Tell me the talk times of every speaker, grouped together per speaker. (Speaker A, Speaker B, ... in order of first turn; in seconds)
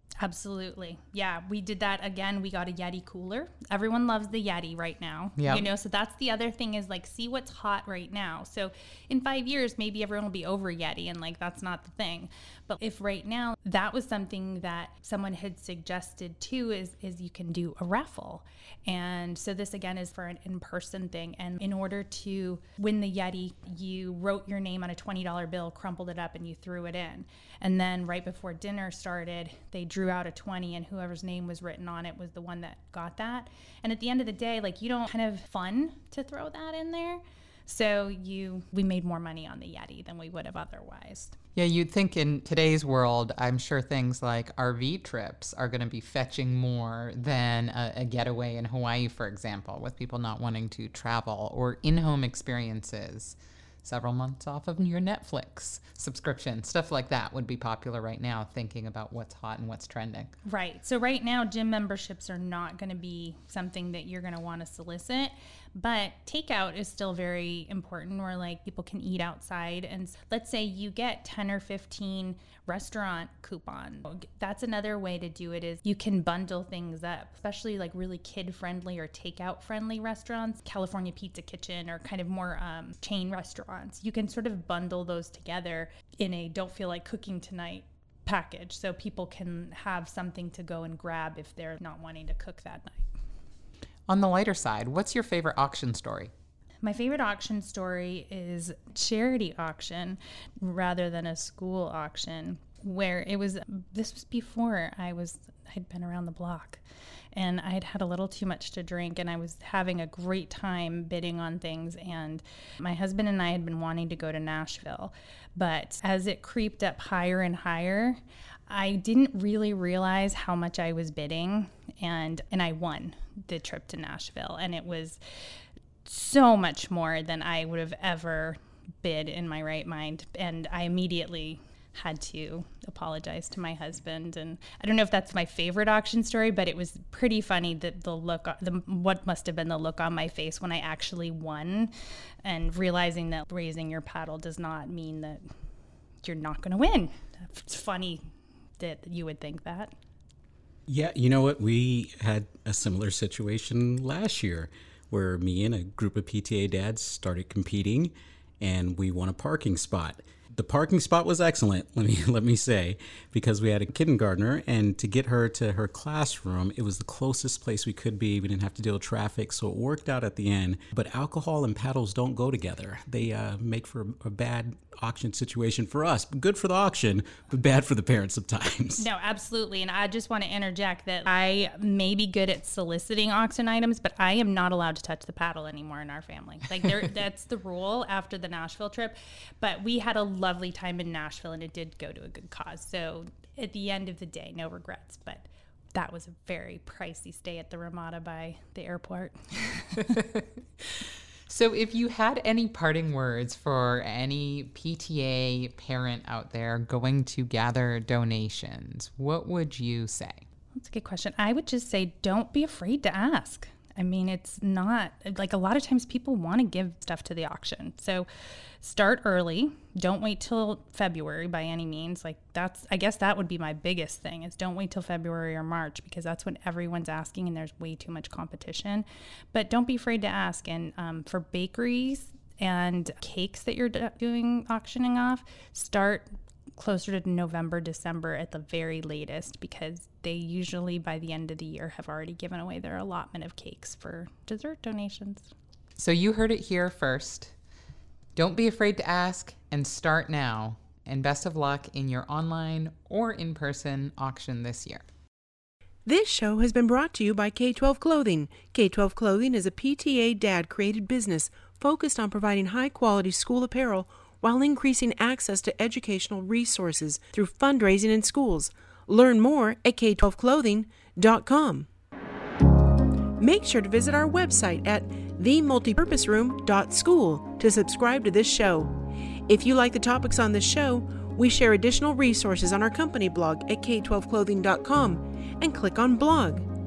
Speaker A: 0.2-41.4, 60.4-93.1, 96.8-106.8, 107.3-125.2, 126.0-141.9, 142.4-145.4, 146.2-149.9, 179.0-200.2, 210.7-218.2, 218.8-245.5
Speaker B: 5.4-5.7, 41.5-60.3, 94.1-96.3, 200.0-210.4, 246.0-247.5, 248.3-255.0
Speaker C: 150.9-179.0
Speaker D: 256.0-271.9, 273.4-286.7